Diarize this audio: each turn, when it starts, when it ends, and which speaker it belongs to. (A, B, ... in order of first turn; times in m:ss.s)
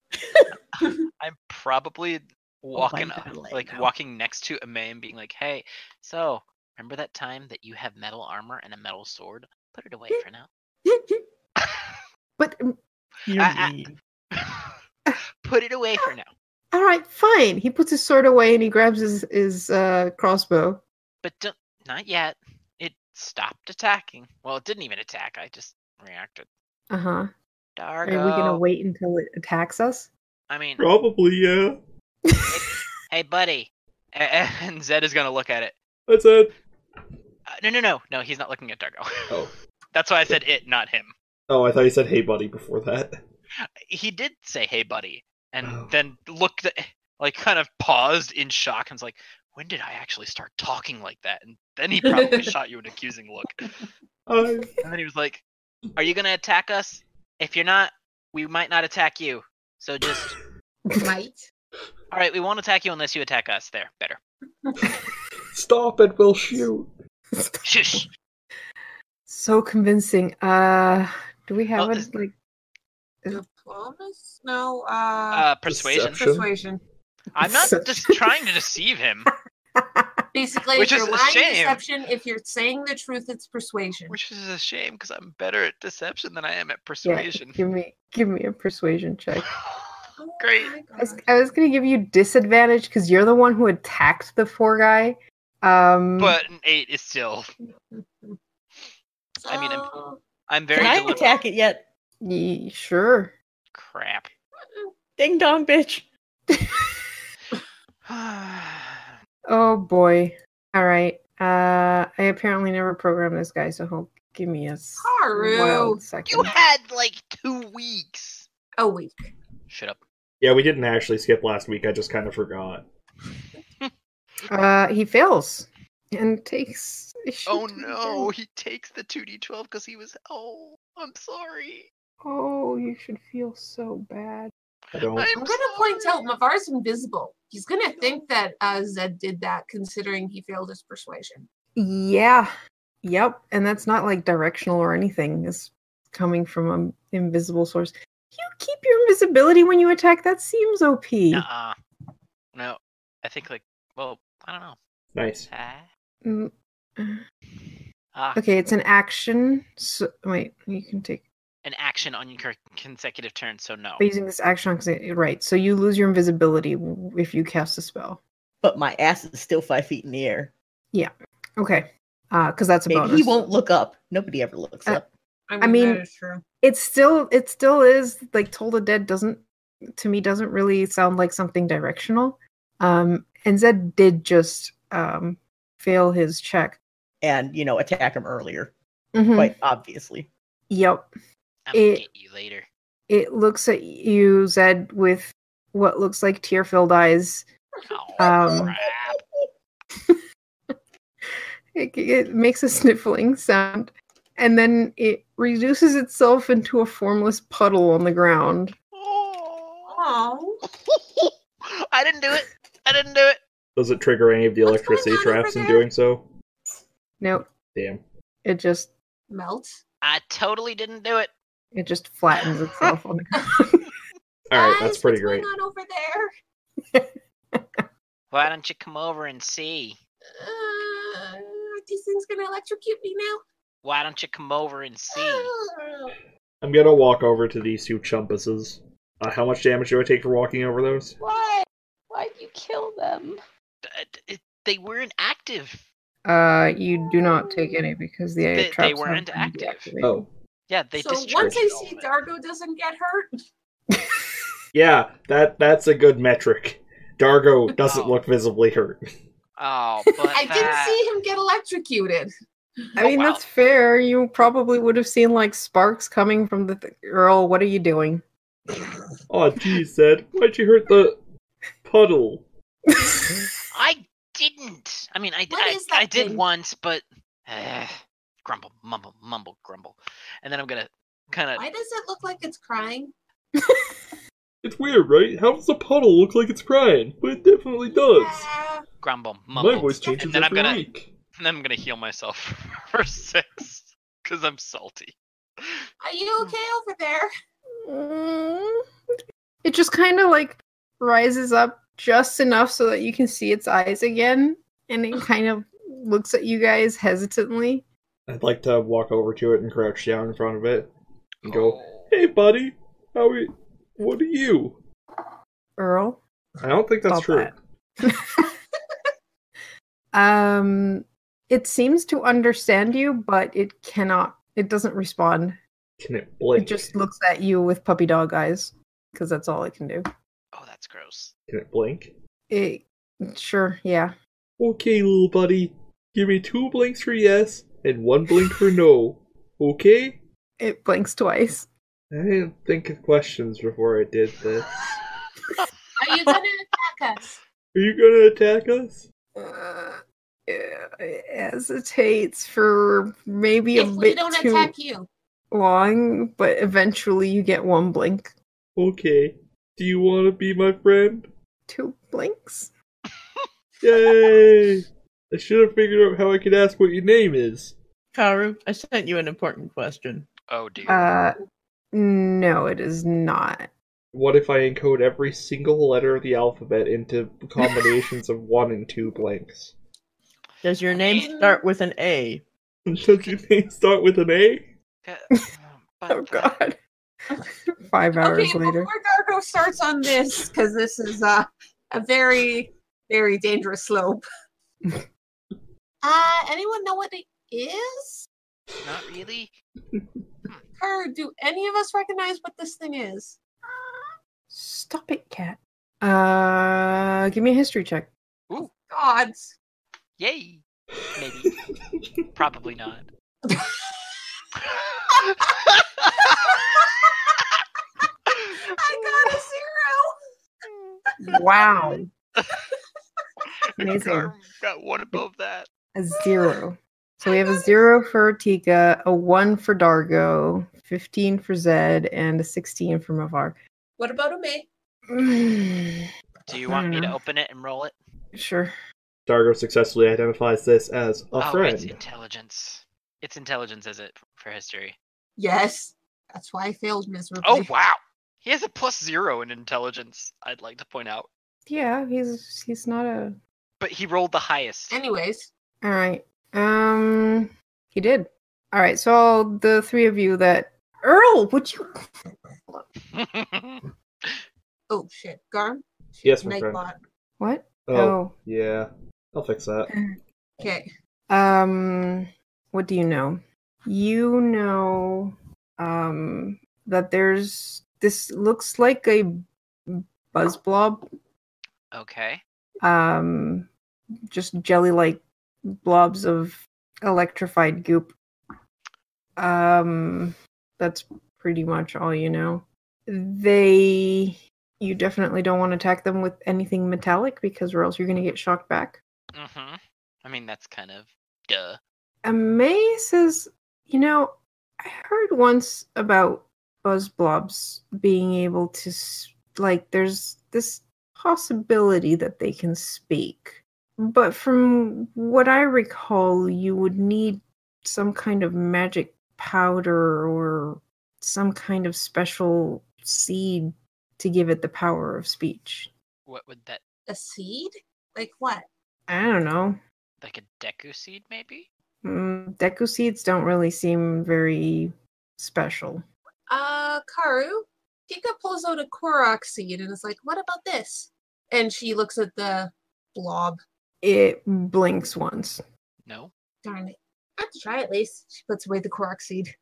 0:00.1-0:00.5 A
0:00.7-0:10.5 B
0:02.7-0:03.9 A
0:10.9-0:11.2 C
0:11.6-0:12.0 B
0:12.4-0:12.7 C
0:13.2-0:14.0 A
0:13.4-0:14.8 B
0:15.4-0:16.3 B
0:16.7-0:20.8 C
0:21.2-0:26.5 B
0:26.9-0:27.3 C
0:27.8-0:28.6 B
0:28.0-0:30.1 C
0:30.5-0:30.8 B
0:30.8-0:31.8 D
0:32.3-0:32.6 C
0:32.5-0:35.8 B
0:36.1-0:36.5 D
0:37.5-0:39.4 B
0:39.9-0:41.1 B
0:41.5-0:43.2 D
0:43.9-0:53.9 B
0:45.6-0:45.9 D
0:52.1-0:52.4 E
0:54.3-0:54.7 D
0:54.8-0:55.4 B
0:56.0-1:00.4 B
1:01.0-1:01.4 E
1:02.1-1:04.2 B
1:05.5-1:06.9 D
1:07.3-1:08.1 C
1:07.6-1:08.1 B
1:09.3-1:12.3 C
1:11.8-1:12.1 B
1:13.3-1:15.5 E
1:15.3-1:16.2 B
1:15.7-1:16.5 D
1:16.1-1:16.8 E
1:17.3-1:19.3 B
1:17.4-1:18.4 C
1:19.8-1:20.2 C
1:20.3-1:24.2 E
1:20.8-1:21.8 B
1:24.1-1:27.6 B
1:27.0-1:29.4 C
1:29.4-1:30.7 B
1:30.2-1:31.3 E
1:31.0-1:36.4 C
1:36.2-1:37.5 B
1:37.6-1:38.4 E
1:39.4-1:40.2 E
1:39.5-1:39.9 B
1:40.5-1:41.3 B
1:40.8-1:41.9 A
1:40.8-1:41.4 E
1:42.2-1:43.3 C
1:43.7-1:44.3 B
1:45.2-1:46.0 A
1:46.5-1:47.0 C
1:48.1-1:49.1 B
1:49.5-1:56.6 C
1:55.0-1:56.0 E
1:56.3-1:58.4 B
1:58.8-1:59.1 E
1:59.7-2:00.0 B
2:00.4-2:02.8 D
2:04.5-2:08.3 C
2:07.4-2:11.9 B
2:12.2-2:14.5 C
2:14.9-2:16.3 B
2:14.9-2:15.3 D
2:15.3-2:21.4 E
2:21.8-2:22.5 C
2:23.0-2:31.4 C
2:31.3-2:31.8 B
2:32.5-2:34.8 B
2:35.1-2:35.5 D
2:35.5-2:35.9 B
2:36.2-2:37.2 C
2:38.1-2:38.4 B
2:38.3-2:41.2 C
2:41.6-2:44.0 B
2:44.0-2:48.2 C
2:48.6-2:50.5 A
2:50.9-2:53.4 C
2:52.9-2:55.1 A
2:55.5-2:56.4 E
2:55.6-2:56.0 C
2:56.6-2:59.4 C
3:00.0-3:06.8 C
3:07.2-3:08.7 A
3:09.1-3:09.6 C
3:09.3-3:10.3 A
3:10.7-3:11.1 C
3:11.7-3:12.7 B
3:11.7-3:12.0 C
3:13.1-3:17.5 C
3:17.9-3:19.2 B
3:18.2-3:18.8 C
3:20.1-3:20.7 C
3:21.2-3:28.7 C
3:28.9-3:30.0 B
3:29.9-3:30.6 E
3:30.7-3:31.3 B
3:31.9-3:33.4 B
3:33.8-3:36.3 D
3:34.6-3:35.8 E
3:37.2-3:37.4 C
3:37.7-3:38.0 D
3:38.4-3:38.9 C
3:39.3-3:39.8 E
3:40.0-3:41.3 B
3:41.7-3:43.9 C
3:44.5-3:45.5 D
3:44.5-3:46.3 E
3:46.9-3:47.9 C
3:48.3-3:50.0 B
3:50.3-3:53.4 E
3:53.8-3:55.5 B
3:55.1-3:56.2 E
3:56.6-4:01.2 D
4:01.2-4:03.4 F
4:03.8-4:05.8 B
4:06.2-4:10.2 C
4:08.5-4:09.9 B
4:10.0-4:10.3 D
4:10.7-4:12.1 B
4:10.9-4:13.3 E
4:11.4-4:11.6 D
4:13.9-4:14.3 C
4:14.7-4:19.0 D
4:17.8-4:18.2 B
4:19.6-4:21.0 B
4:20.3-4:22.3 E
4:23.0-4:23.4 B
4:23.0-4:28.2 C
4:29.3-4:31.2 D
4:31.8-4:32.4 D
4:32.9-4:33.5 C
4:33.7-4:41.6 B
4:35.5-4:36.4 E
4:41.6-4:43.1 E
4:43.6-4:44.0 C
4:44.6-4:48.5 D
4:48.1-4:48.8 E
4:49.0-4:50.8 B
4:49.5-4:51.1 D
4:49.9-4:50.2 E
4:51.4-4:55.8 B
4:56.0-4:57.3 E
4:57.8-4:58.8 C
4:59.6-5:07.8 C
5:08.3-5:10.9 D
5:11.4-5:12.1 B
5:11.4-5:14.8 D
5:15.8-5:16.2 C
5:16.6-5:17.6 D
5:17.0-5:17.5 C
5:18.0-5:18.5 C
5:20.1-5:25.6 C
5:26.0-5:26.9 D
5:26.6-5:30.0 C
5:30.5-5:31.3 B
5:31.5-5:32.1 D
5:32.5-5:34.1 C
5:34.6-5:40.2 D
5:40.6-5:41.7 C
5:42.1-5:44.9 D
5:46.0-5:47.4 E
5:47.7-5:49.1 D
5:49.4-5:54.7 C
5:53.7-5:55.1 E
5:55.5-5:58.3 C
5:58.8-6:01.3 D
6:01.7-6:02.7 C
6:03.8-6:07.8 D
6:08.1-6:10.3 A
6:10.5-6:11.1 B
6:10.8-6:11.4 C
6:11.9-6:13.7 C
6:14.1-6:19.7 D
6:20.6-6:22.4 A
6:20.9-6:21.3 B
6:21.1-6:21.6 E
6:22.9-6:24.7 D
6:23.1-6:23.4 B
6:25.0-6:26.6 B
6:26.1-6:26.8 C
6:27.3-6:28.9 C
6:28.2-6:34.2 E
6:36.0-6:38.3 E
6:38.8-6:39.5 B
6:39.9-6:40.3 D
6:40.8-6:43.4 E
6:43.7-6:48.1 C
6:48.9-6:49.5 E
6:50.2-6:50.6 B
6:51.1-6:51.5 B
6:51.9-6:52.2 D
6:52.3-6:53.1 B
6:53.4-6:54.0 E
6:54.7-6:56.6 B
6:56.2-6:57.3 E
6:58.3-6:59.1 B
6:58.5-7:00.1 E
7:00.7-7:01.0 B
7:01.2-7:02.1 C
7:03.7-7:05.7 B
7:03.8-7:04.3 C
7:05.9-7:13.6 C
7:07.2-7:07.8 E
7:14.0-7:14.7 E
7:15.1-7:16.1 C
7:16.5-7:17.9 B
7:16.6-7:17.1 C
7:18.3-7:18.7 C
7:19.3-7:22.0 D
7:21.4-7:25.0 B
7:25.4-7:27.7 E
7:27.4-7:31.3 B
7:31.6-7:33.4 C
7:33.8-7:35.0 B
7:34.9-7:35.5 E
7:35.8-7:41.9 C
7:43.1-7:44.4 B
7:44.9-7:47.0 E
7:46.2-7:46.8 D
7:47.4-7:48.3 C
7:47.8-7:49.9 D
7:49.9-7:50.2 C
7:50.6-7:50.9 E
7:51.3-8:01.0 C
8:01.9-8:02.4 B
8:02.8-8:03.7 C
8:04.3-8:08.2 C
8:09.4-8:19.0 C
8:19.3-8:21.8 B
8:22.2-8:45.9 C
8:46.3-8:46.8 B
8:47.1-8:48.6 E
8:49.1-8:49.8 C
8:50.2-8:51.7 B
8:52.0-8:56.0 C
8:56.5-9:03.6 E
9:04.0-9:05.6 C
9:06.0-9:06.3 B
9:06.6-9:09.5 E